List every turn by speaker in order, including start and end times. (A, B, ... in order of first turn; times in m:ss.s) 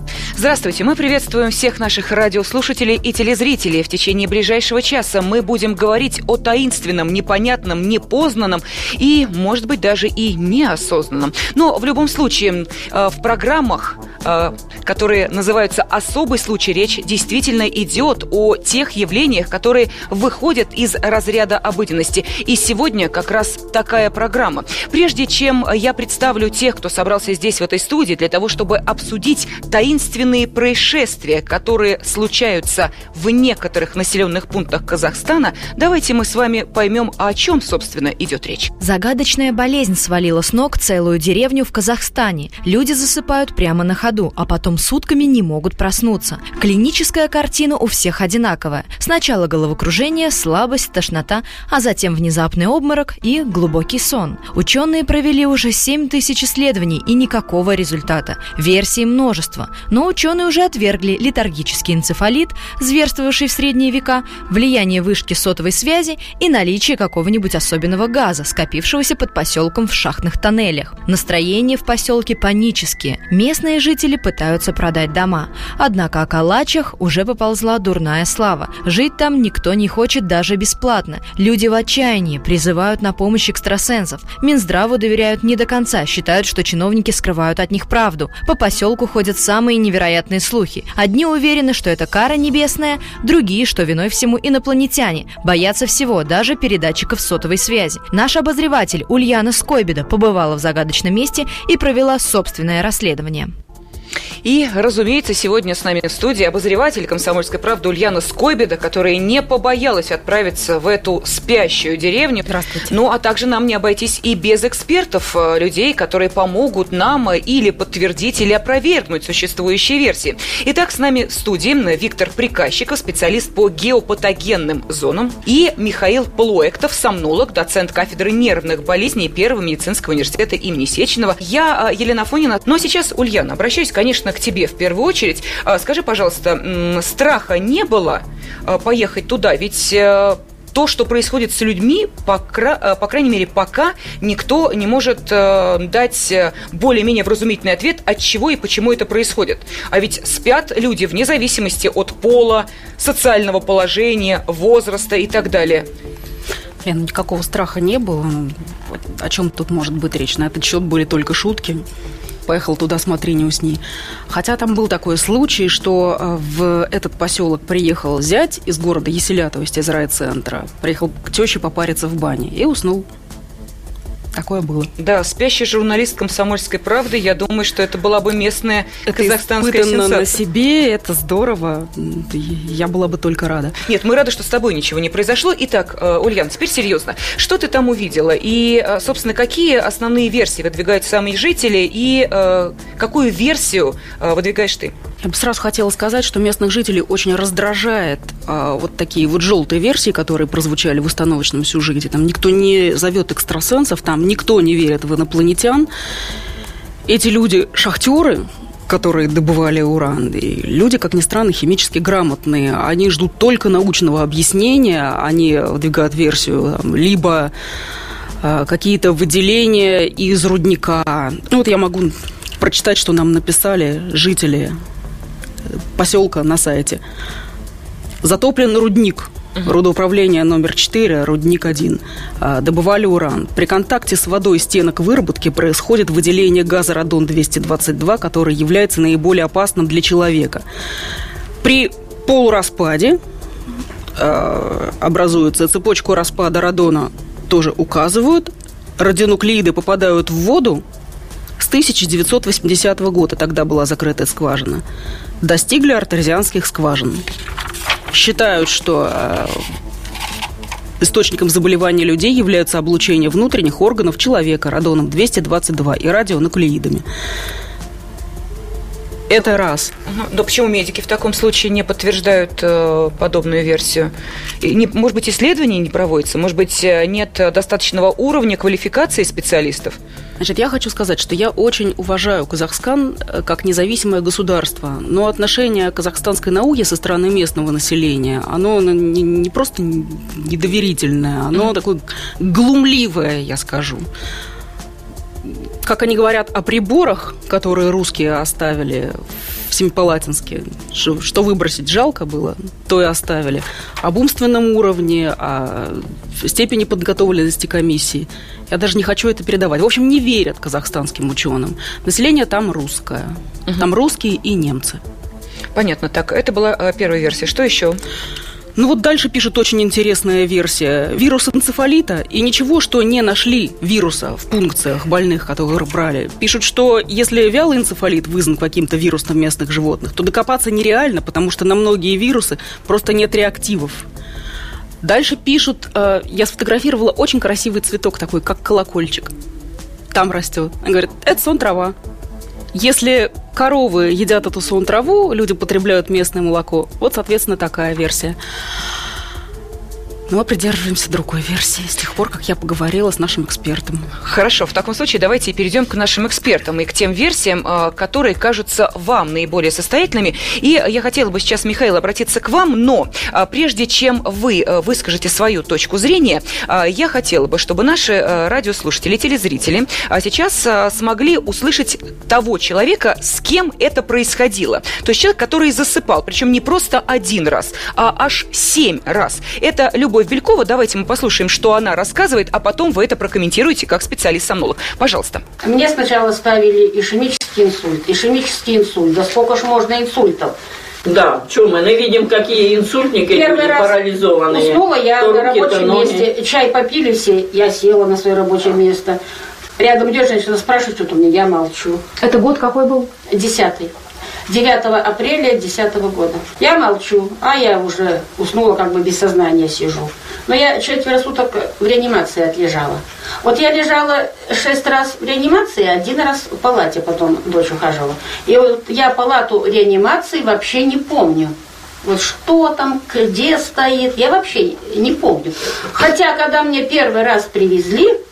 0:00.4-0:38.7 A
0:38.8-1:43.5 B
1:44.4-2:35.9 A
1:52.5-1:52.9 C
2:36.8-2:41.8 C
2:42.5-2:53.1 C
2:54.4-2:54.9 C
2:55.0-3:00.4 A
2:59.1-3:03.8 C
3:03.9-3:14.9 A
3:15.2-3:25.9 C
3:27.1-3:37.5 C
3:38.4-3:44.8 C
3:45.7-3:47.0 C
3:48.2-4:00.6 C
4:01.6-4:03.2 C
4:04.2-4:10.8 C
4:11.6-4:14.8 C
4:15.4-4:17.3 C
4:18.1-4:19.6 C
4:21.0-4:27.0 C
4:29.3-4:29.9 C
4:30.1-4:40.0 A
4:40.4-4:54.1 C
4:55.4-5:15.0 C
5:15.8-5:18.0 A
5:18.8-5:34.1 C
5:35.0-5:39.3 C
5:40.1-5:42.0 C
5:42.7-5:48.4 C
5:50.3-5:54.1 C
5:54.2-6:25.4 A
6:25.6-6:30.6 D
6:31.0-6:36.3 E
6:33.3-6:39.2 D
6:39.8-6:42.0 D
6:42.2-6:43.1 C
6:43.3-6:43.9 D
6:44.5-7:08.2 D